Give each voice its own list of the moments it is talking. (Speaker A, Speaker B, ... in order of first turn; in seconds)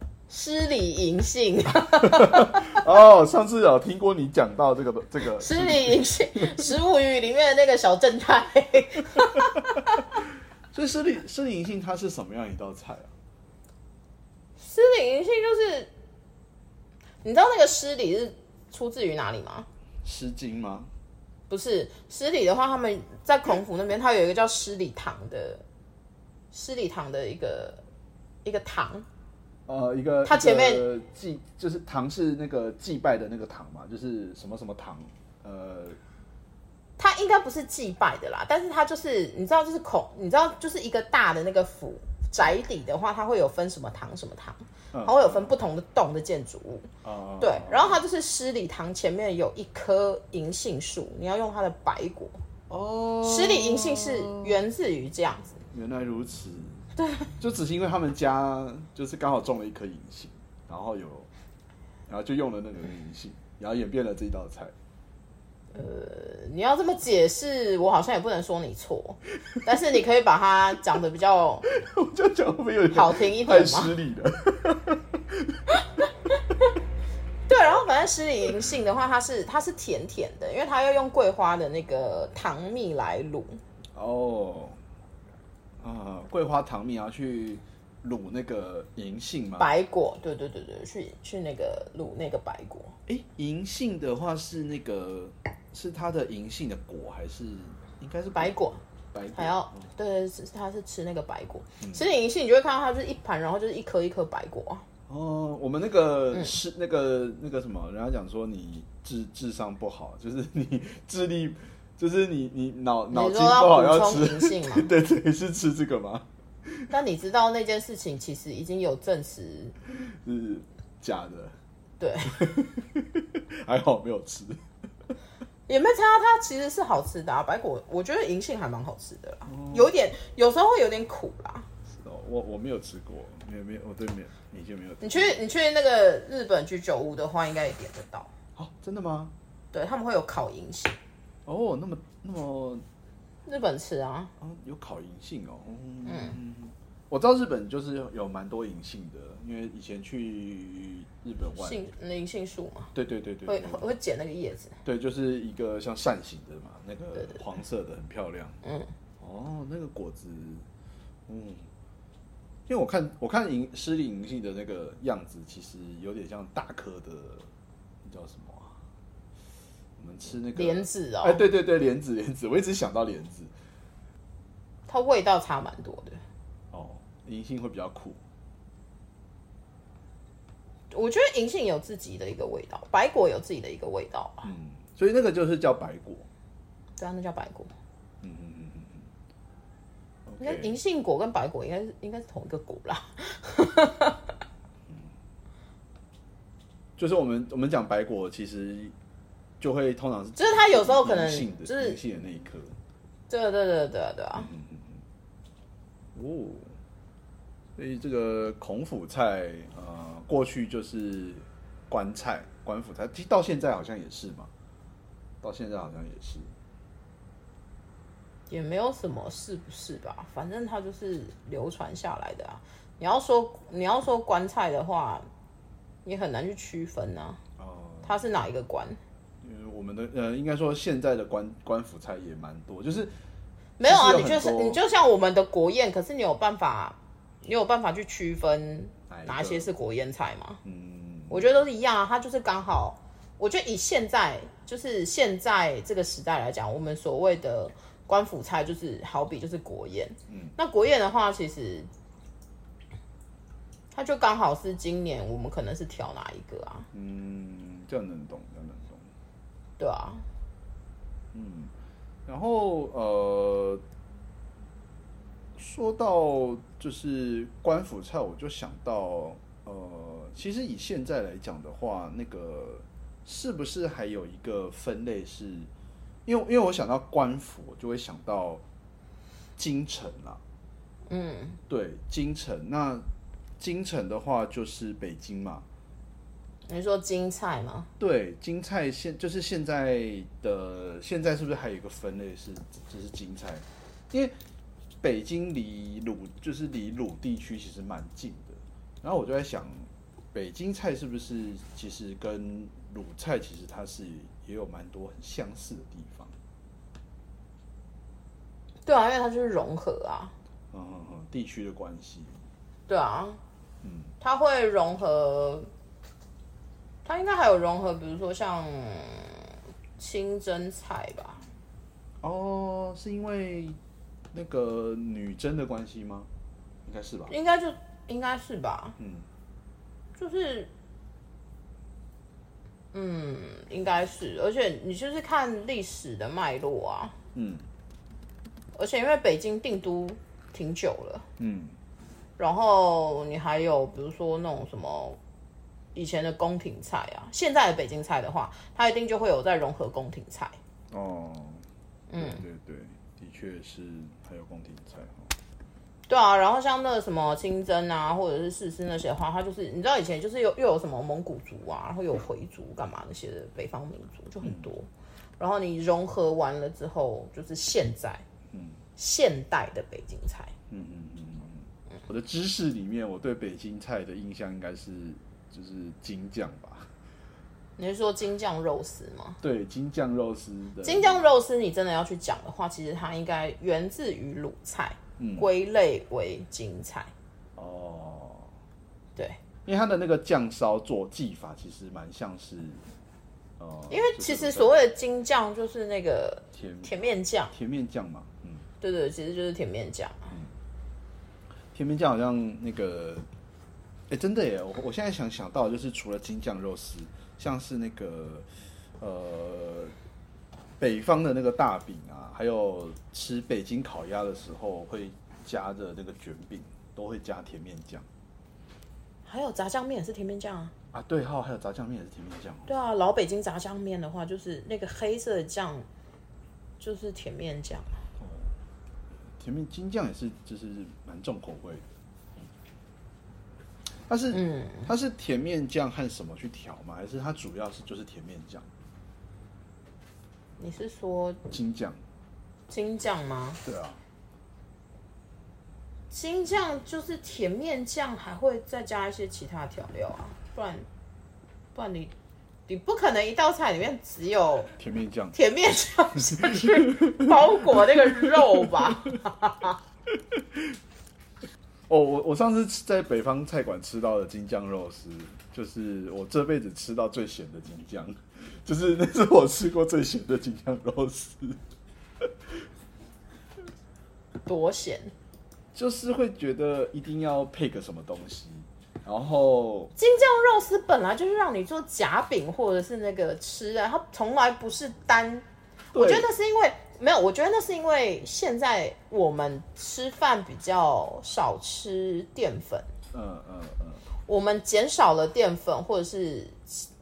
Speaker A: 0.3-2.8, 5.4-10.1, 14.6-15.9, 17.2-19.7, 21.5-25.6, 26.5-27.8, 28.4-29.1, 30.2-30.9, 37.0-52.4, 53.2-55.6, 57.0-57.3, 65.7-71.7, 72.9-73.9, 77.5-83.6, 89.6-93.0, 98.3-98.8, 99.3-104.8, 113.1-114.9, 116.9-119.8, 122.0-122.5, 125.7-131.7, 135.0-138.3, 139.7-141.0, 143.5-144.3, 146.1-146.4, 151.6-152.9, 153.5-154.8, 158.6-158.9, 170.6-171.4, 174.9-176.2, 180.9-184.5, 187.0-187.7, 190.4-194.3, 200.4-202.0, 203.3-204.5, 218.5-225.3, 226.1-227.4, 228.0-229.0, 233.8-240.6, 241.3-251.9, 253.9-256.9, 259.8-260.2, 281.1-281.6, 286.7-287.9, 308.9-310.3, 312.9-313.4, 314.2-315.7, 317.1-321.4, 327.3-329.0, 330.2-330.7, 332.9-337.1, 338.8-341.2, 342.4-345.2, 345.9-350.6, 352.1-352.4, 356.1-368.2, 369.0-370.5, 377.8-379.4, 380.8-387.1, 393.9-397.6, 398.8-400.4, 419.3-420.7, 422.7-425.9, 426.8-428.0, 434.3-434.9, 440.6-441.4, 442.7-443.6, 446.1-450.9, 451.7-452.1, 452.7-454.7, 455.3-459.8, 474.5-475.1, 480.0-492.9, 494.3-496.9
Speaker B: 2.0-6.7, 9.4-9.6, 10.7-13.1, 20.0-20.9, 29.7-36.0, 44.9-45.5, 47.0-48.0, 52.7-54.6, 55.7-56.8, 57.4-61.3, 62.1-64.7, 71.7-75.8, 84.0-84.8, 85.8-89.7, 93.1-99.9, 101.8-102.1, 105.1-116.9, 119.9-121.5, 122.3-124.6, 129.5-129.9, 131.9-135.4, 138.6-139.3, 141.5-142.8, 144.4-151.8, 152.9-153.8, 154.8-158.6, 159.2-160.7, 161.3-161.7, 162.7-167.5, 168.0-168.8, 170.0-173.5, 176.7-178.2, 184.4-186.3, 188.2-189.1, 190.3-190.8, 197.0-198.9, 199.6-202.8, 204.4-205.0, 206.2-206.8, 207.8-214.5, 215.4-216.5, 227.6-228.2, 229.4-233.2, 233.8-234.8, 239.1-239.7, 240.6-241.5, 250.3-250.6, 256.9-259.1, 261.3-261.7, 262.3-263.8, 265.6-275.7, 276.3-278.6, 279.6-280.4, 281.7-283.1, 283.6-285.6, 288.0-294.4, 295.0-306.3, 310.7-312.4, 313.8-314.1, 322.2-323.8, 324.3-326.3, 326.9-327.3, 329.0-329.3, 337.3-337.7, 341.4-341.8, 350.9-355.3, 364.4-364.7, 368.5-368.8, 370.7-376.9, 379.4-381.2, 385.2-385.5, 387.6-388.5, 389.7-392.8, 393.6-394.8, 396.5-396.9, 397.5-398.7, 401.7-403.3, 404.1-408.5, 409.0-409.9, 410.8-418.1, 420.9-422.7, 428.2-428.5, 429.4-431.9, 434.1-438.7, 441.5-442.0, 443.6-444.0, 454.8-455.4, 456.2-459.1, 460.2-460.8, 461.9-471.6, 472.2-472.6, 475.7-479.9, 485.9-486.3, 493.1-494.1